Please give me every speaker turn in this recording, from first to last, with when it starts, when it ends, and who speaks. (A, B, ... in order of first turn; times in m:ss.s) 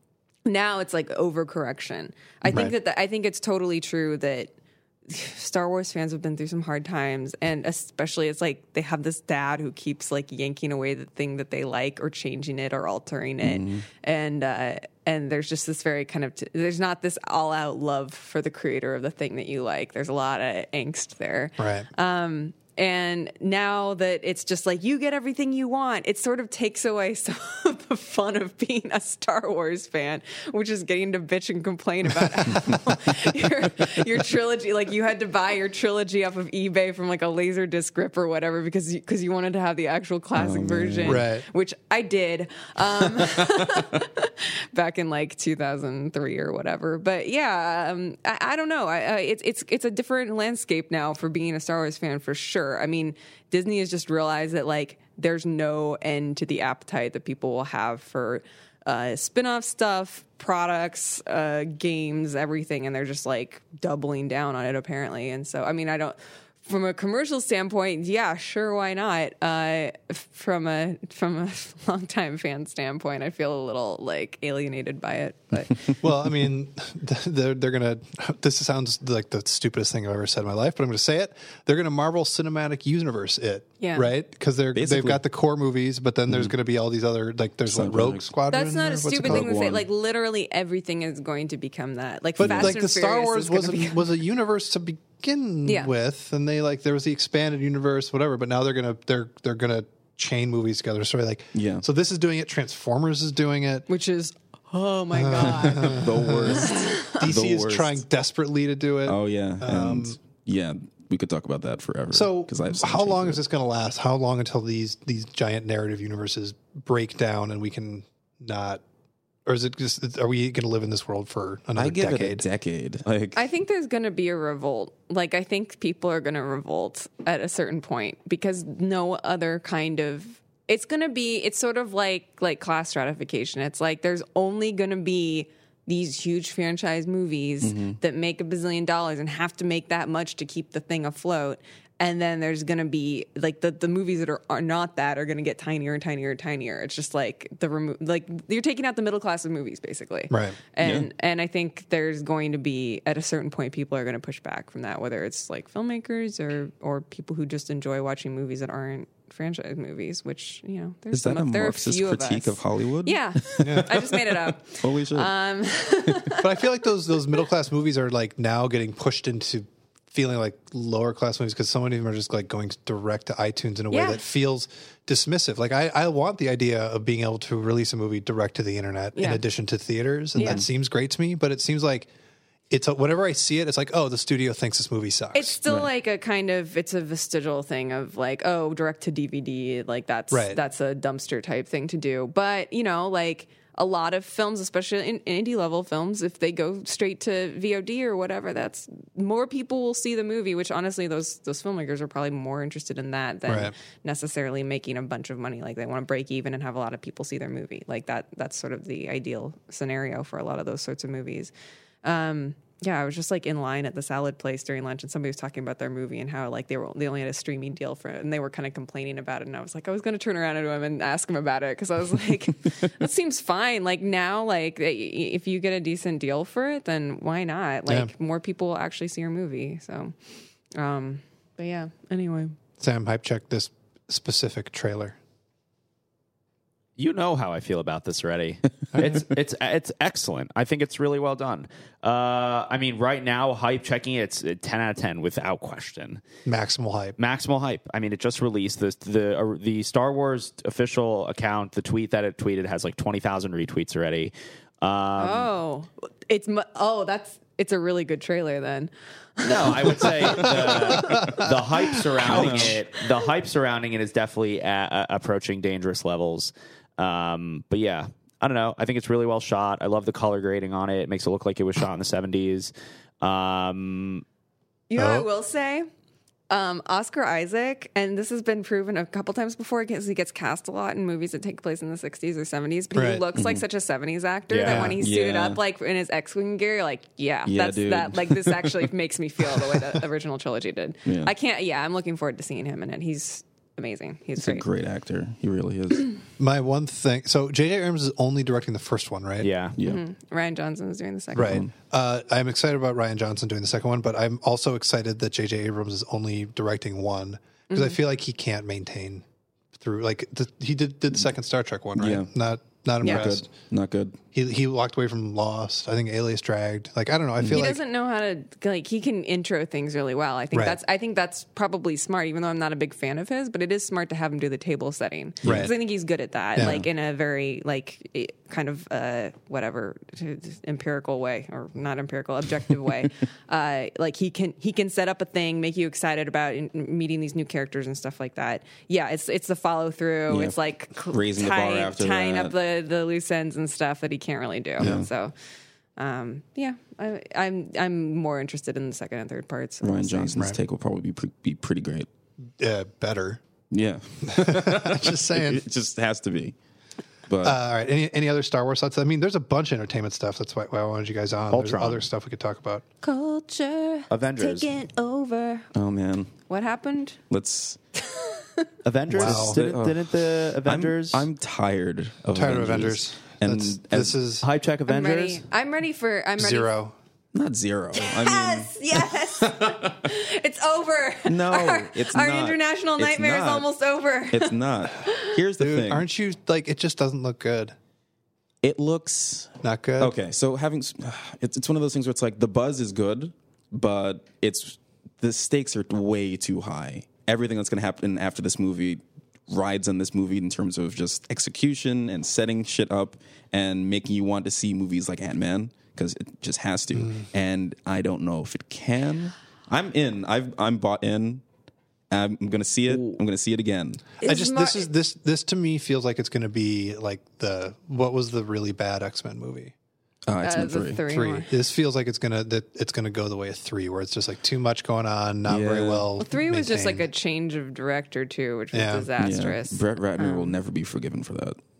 0:00.4-0:04.5 A
0:02.5-0:02.7 B
0:05.1-1:15.9 A
0:13.4-0:13.8 C
0:21.6-0:21.9 B
0:40.3-0:41.2 C
0:41.0-0:41.4 B
1:16.0-1:29.5 B
1:23.8-1:24.1 A
1:24.7-1:25.2 C
1:26.3-1:26.5 C
1:27.7-1:28.3 C
1:28.5-1:34.1 A
1:29.2-1:29.8 C
1:32.4-1:43.8 B
1:32.4-1:32.8 C
1:35.6-1:35.9 A
1:41.5-1:41.8 C
1:43.9-1:47.3 A
1:45.1-1:50.2 B
1:45.4-1:48.0 C
1:49.0-1:53.4 C
1:52.1-1:58.8 B
1:59.4-2:02.4 B
2:01.8-2:03.4 C
2:03.3-2:46.6 A
2:17.6-2:18.0 C
2:30.3-2:30.6 B
2:30.8-2:31.1 C
2:41.1-2:45.3 C
2:43.6-2:44.0 B
2:46.3-3:02.1 B
2:53.9-2:54.2 A
2:59.2-2:59.4 A
3:00.4-3:00.6 A
3:02.7-3:05.6 B
3:05.3-3:31.5 A
3:10.3-3:10.6 B
3:23.5-3:23.7 B
3:32.0-3:50.1 A
3:47.9-3:48.1 B
3:50.8-3:52.5 A
3:52.8-3:55.2 B
3:57.0-4:06.2 D
3:58.9-3:59.2 B
4:06.4-4:07.2 B
4:07.2-4:15.5 D
4:15.2-4:21.4 A
4:19.4-4:34.2 D
4:21.1-4:21.5 B
4:22.2-4:22.7 B
4:22.2-4:22.8 C
4:34.9-4:35.9 A
4:35.0-4:35.3 B
4:36.5-4:54.6 A
4:42.9-4:43.2 B
4:43.3-4:43.6 C
4:44.5-4:45.0 D
4:44.6-4:45.0 B
4:45.0-4:45.6 C
4:47.4-4:48.9 C
4:51.0-4:51.3 C
4:54.4-4:56.1 C
4:56.4-4:59.5 B
4:59.4-4:59.8 D
4:59.8-5:00.0 C
4:59.8-5:01.6 A
5:01.3-5:01.7 C
5:01.3-5:13.4 B
5:07.7-5:08.0 A
5:12.0-5:12.3 C
5:13.0-5:14.2 C
5:13.0-5:13.3 A
5:14.3-5:17.8 B
5:17.4-5:45.3 A
5:20.5-5:20.8 B
5:25.4-5:25.7 B
5:25.4-5:25.7 C
5:26.6-5:26.8 B
5:26.6-5:26.8 C
5:40.3-5:42.5 C
5:44.8-5:45.1 C
5:46.0-5:50.4 A
5:49.8-5:52.1 C
5:52.6-5:53.4 B
5:53.7-5:56.5 C
5:54.2-5:55.6 B
5:57.3-5:57.6 C
5:57.4-6:02.8 B
6:01.5-6:02.0 D
6:03.0-6:05.7 A
6:04.1-6:04.7 D
6:05.7-6:06.4 C
6:06.5-6:07.2 A
6:07.3-6:07.8 C
6:07.9-6:08.7 A
6:08.8-6:11.2 D
6:09.1-6:09.6 B
6:09.1-6:14.2 C
6:12.3-6:14.4 B
6:14.4-6:15.4 D
6:14.9-6:16.7 A
6:16.4-6:16.9 B
6:17.3-6:20.0 C
6:17.9-6:25.3 A
6:21.2-6:23.7 C
6:24.3-6:26.0 C
6:25.6-6:27.7 B
6:28.6-6:51.4 C
6:29.6-6:30.2 B
6:46.9-6:47.2 B
6:52.1-6:54.1 C
6:52.9-6:53.2 D
6:54.2-6:54.9 A
6:54.2-6:59.7 B
7:00.3-7:01.0 C
7:00.4-7:01.5 A
7:01.1-7:07.1 B
7:05.5-7:06.1 C
7:06.2-7:10.6 A
7:08.7-7:09.1 B
7:09.2-7:11.6 C